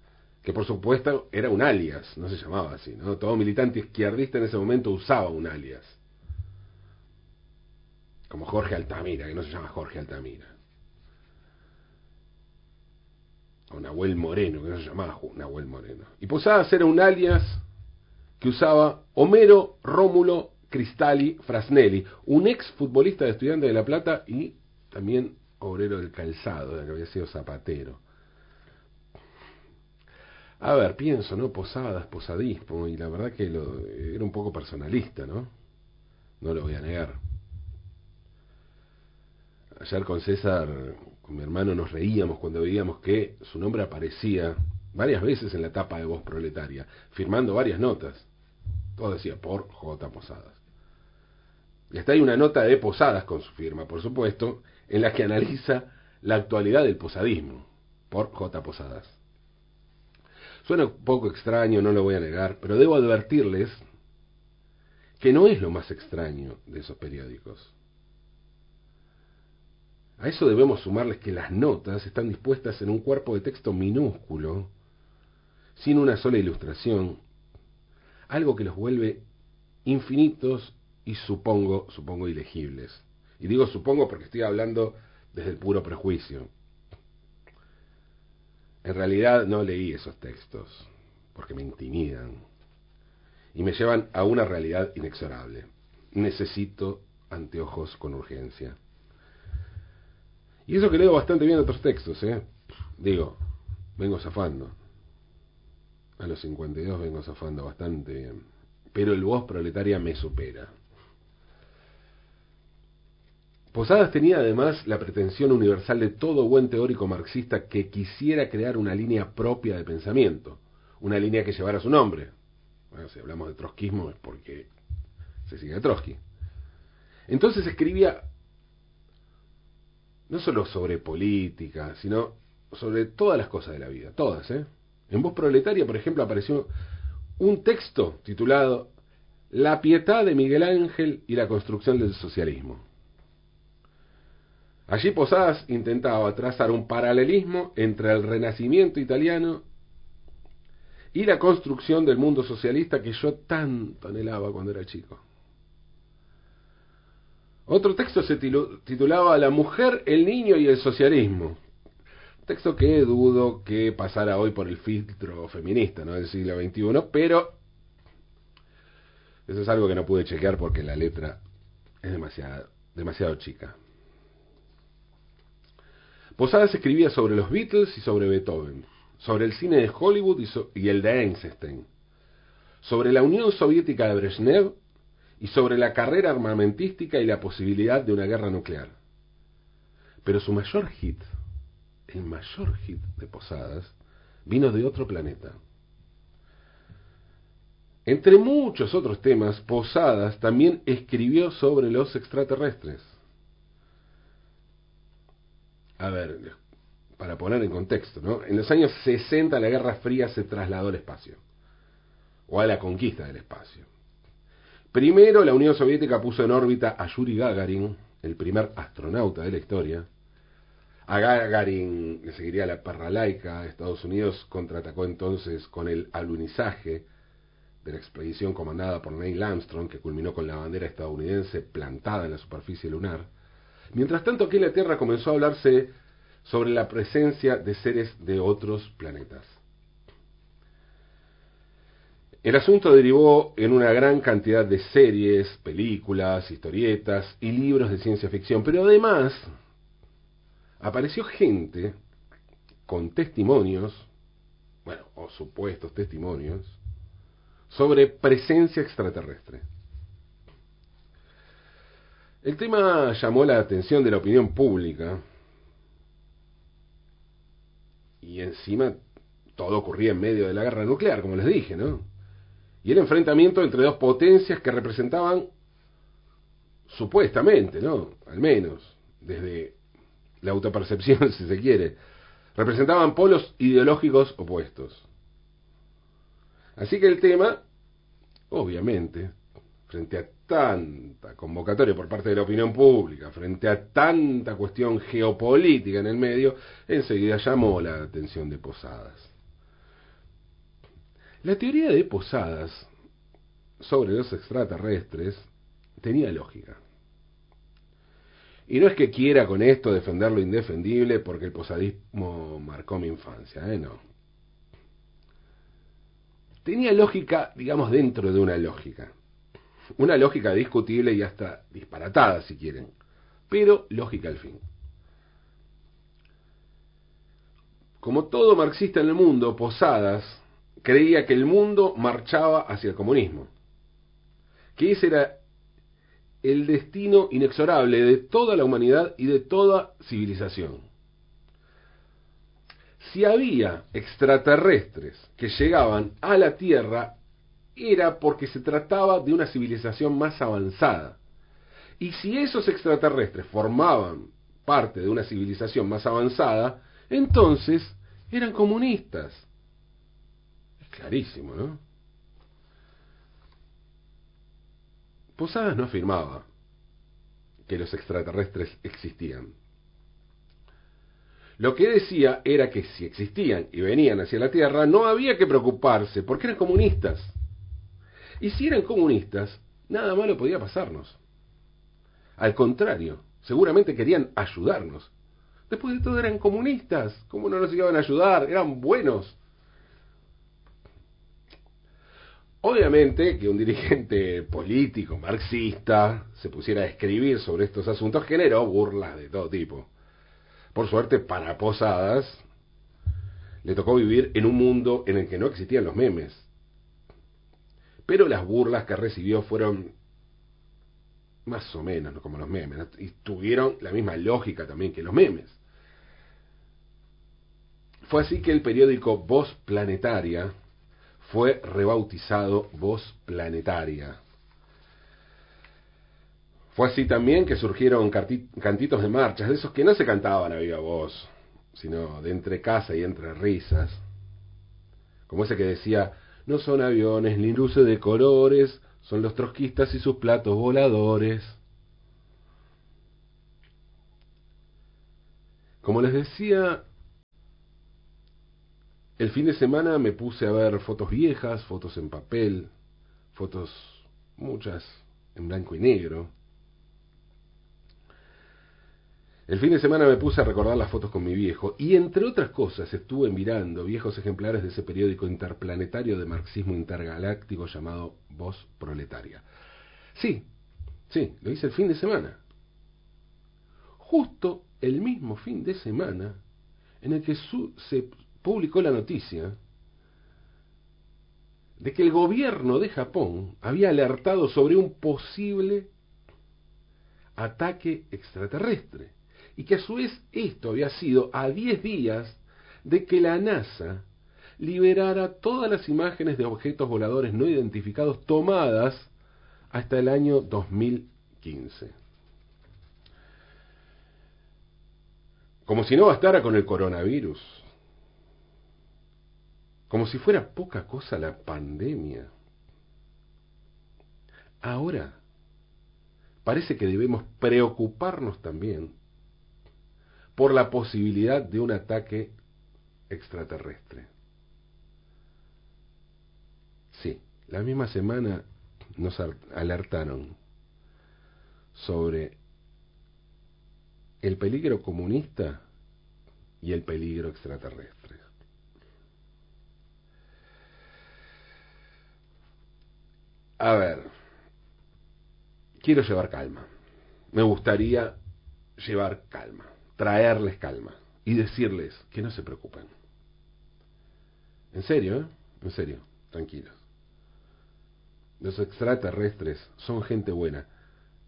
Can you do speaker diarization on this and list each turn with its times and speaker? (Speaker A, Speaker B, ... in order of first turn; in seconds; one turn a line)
Speaker A: 0.4-6.0
Speaker A: 8.3-10.5
Speaker A: 13.7-17.6
Speaker A: 18.4-28.0
Speaker A: 30.6-35.5
Speaker A: 36.4-37.2
Speaker A: 39.8-48.3
Speaker A: 49.0-50.6
Speaker A: 51.9-59.2
Speaker A: 60.6-63.8
Speaker A: 65.2-67.7
Speaker A: 70.2-74.7
Speaker A: 75.8-77.2
Speaker A: 78.3-79.2
Speaker A: 79.8-86.5
Speaker A: 88.8-92.4
Speaker A: 93.5-98.8
Speaker A: 100.7-103.4
Speaker A: 104.0-104.7
Speaker A: 106.2-108.4
Speaker A: 108.9-110.7
Speaker A: 113.7-122.3
Speaker A: 122.9-124.7
Speaker A: 125.5-126.2
Speaker A: 127.3-128.2
Speaker A: 130.3-136.7
Speaker A: 137.4-138.9
Speaker A: 139.5-142.8
Speaker A: 144.9-149.6
Speaker A: 151.1-155.2
Speaker A: 157.7-161.6
Speaker A: 162.4-167.6
Speaker A: 169.5-171.4
Speaker A: 172.0-173.8
Speaker A: 176.4-181.9
Speaker A: 182.8-184.8
Speaker A: 185.4-188.9
Speaker A: 190.2-191.2
Speaker A: 192.1-195.6
Speaker A: 198.1-203.2
Speaker A: 206.0-206.6
Speaker A: 207.2-211.4
Speaker A: 212.5-213.9
Speaker A: 214.9-220.1
Speaker A: 221.1-227.1
Speaker A: 227.8-233.3
Speaker A: 233.9-235.9
Speaker A: 236.4-239.6
Speaker A: 242.4-249.5
Speaker A: 250.8-252.0
Speaker A: 252.9-254.1
Speaker A: 254.8-256.8
Speaker A: 257.7-259.6
Speaker A: 262.4-265.2
Speaker A: 268.2-269.0
Speaker A: 269.6-272.1
Speaker A: 272.8-275.5
Speaker A: 276.9-279.8
Speaker A: 280.4-282.0
Speaker A: 282.5-285.1
Speaker A: 286.8-287.6
Speaker A: 288.5-289.3
Speaker A: 289.9-299.3
Speaker A: 301.4-302.9
Speaker A: 303.8-305.5
Speaker A: 306.0-306.8
Speaker A: 308.7-314.0
Speaker A: 316.6-319.1
Speaker A: 320.0-322.9
Speaker A: 323.5-324.6
Speaker A: 328.0-333.5
Speaker A: 334.8-335.4
Speaker A: 336.4-340.9
Speaker A: 343.0-347.1
Speaker A: 347.8-351.2
Speaker A: 352.0-359.5
Speaker A: 360.8-361.8
Speaker A: 365.4-366.4
Speaker A: 367.6-369.5
Speaker A: 371.6-377.4
Speaker A: 378.4-381.2
Speaker A: 382.4-385.1
Speaker A: 385.7-389.4
Speaker A: 392.6-399.9
Speaker A: 400.7-402.4
Speaker A: 403.6-406.5
Speaker A: 408.1-409.9
Speaker A: 411.4-415.6
Speaker A: 418.0-420.5
Speaker A: 421.2-424.2
Speaker A: 426.7-434.0
Speaker A: 435.3-441.6
Speaker A: 445.8-446.8
Speaker A: 449.2-452.7
Speaker A: 453.3-456.3
Speaker A: 459.5-469.4
Speaker A: 470.1-470.4
Speaker A: 471.1-472.4
Speaker A: 474.0-476.4
Speaker A: 477.0-479.6
Speaker A: 481.8-485.9
Speaker A: 487.4-494.1
Speaker A: 494.6-499.1
Speaker A: 499.7-501.9
Speaker A: 505.6-507.7
Speaker A: 509.9-512.3
Speaker A: 514.6-515.2
Speaker A: 516.4-519.0
Speaker A: 520.4-522.3
Speaker A: 523.1-524.1
Speaker A: 526.9-530.4
Speaker A: 531.7-532.4
Speaker A: 534.2-535.6
Speaker A: 536.6-538.3
Speaker A: 543.6-544.1
Speaker A: 545.8-546.7
Speaker A: 547.3-548.1
Speaker A: 548.8-552.9
Speaker A: 554.7-556.7
Speaker A: 558.4-560.7